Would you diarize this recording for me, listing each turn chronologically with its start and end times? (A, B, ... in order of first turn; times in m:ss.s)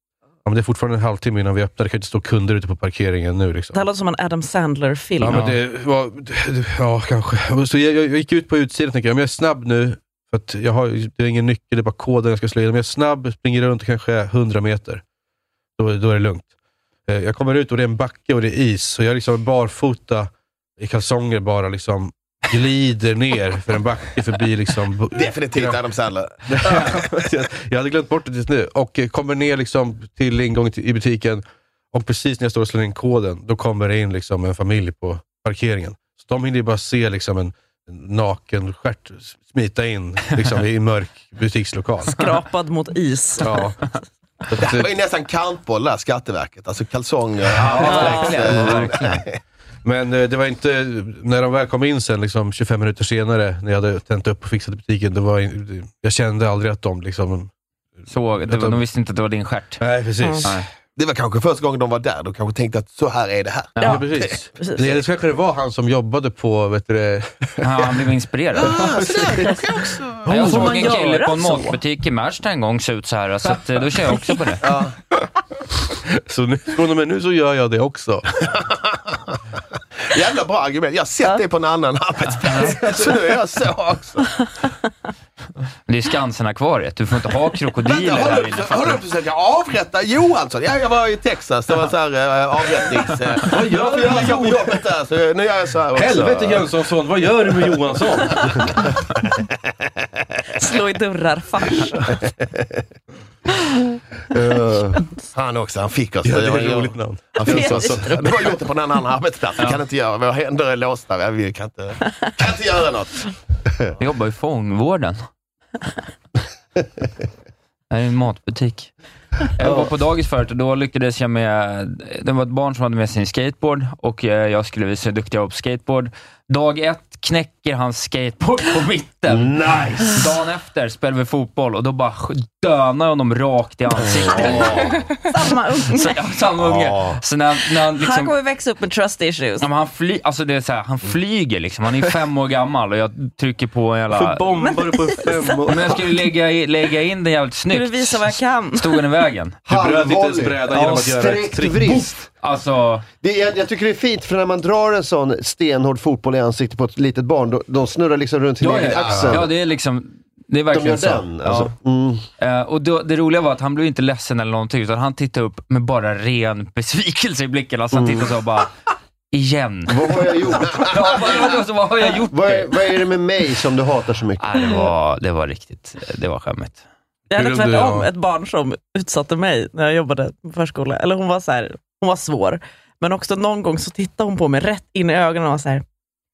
0:00.4-0:03.8 A
0:03.7-0:05.5 B
0:05.2-0:15.0 A
0:05.3-0:05.6 C
0:15.8-0:16.5 A
0:17.1-0:25.8 A
0:25.1-0:27.2 D
0:26.5-0:42.2 A
0:42.0-0:43.7 B
0:43.4-0:43.8 A
0:44.5-0:44.9 A
0:44.6-0:49.4 D
0:47.6-0:48.3 A
0:47.6-0:49.2 C
0:47.8-0:48.4 B
0:49.8-0:57.5 A
0:58.1-0:59.8 C
0:58.4-0:58.8 A
0:59.8-1:00.6 A
1:00.2-1:00.4 B
1:01.0-1:04.3 D
1:03.8-1:07.7 A
1:04.6-1:04.9 B
1:07.6-1:08.9 C
1:08.6-1:10.6 D
1:10.2-1:10.8 A
1:10.2-1:14.6 C
1:10.3-1:11.8 B
1:14.6-1:15.0 D
1:16.1-1:18.2 A
1:18.6-1:19.2 D
1:20.1-1:24.4 D
1:22.4-1:22.7 C
1:25.9-1:29.0 C
1:27.8-1:36.7 D
1:33.4-1:34.7 A
1:35.9-1:38.9 A
1:40.6-1:42.0 B
1:44.3-1:45.0 E
1:45.3-1:53.3 D
1:46.2-1:48.3 A
1:47.4-1:48.3 B
1:54.0-1:55.2 C
1:57.9-1:58.9 C
1:59.6-2:15.0 C
1:59.6-1:59.9 E
2:09.3-2:10.3 E
2:14.0-2:15.0 E
2:15.2-2:16.1 B
2:15.9-2:18.3 C
2:16.6-2:17.2 E
2:18.0-2:19.6 B
2:19.6-2:24.4 C
2:24.1-2:26.0 A
2:24.6-2:25.9 B
2:25.7-2:29.6 C
2:27.7-2:29.0 B
2:29.7-2:32.3 E
2:29.7-2:32.1 A
2:32.4-2:33.0 C
2:33.2-2:39.5 E
2:38.6-2:41.7 C
2:38.7-2:39.4 A
2:40.7-2:42.2 E
2:42.4-2:48.7 C
2:47.9-2:48.3 E
2:49.3-2:52.7 C
2:49.9-2:51.4 E
2:52.3-2:54.9 E
2:54.4-2:56.8 C
2:57.3-3:05.8 B
2:57.3-2:58.1 A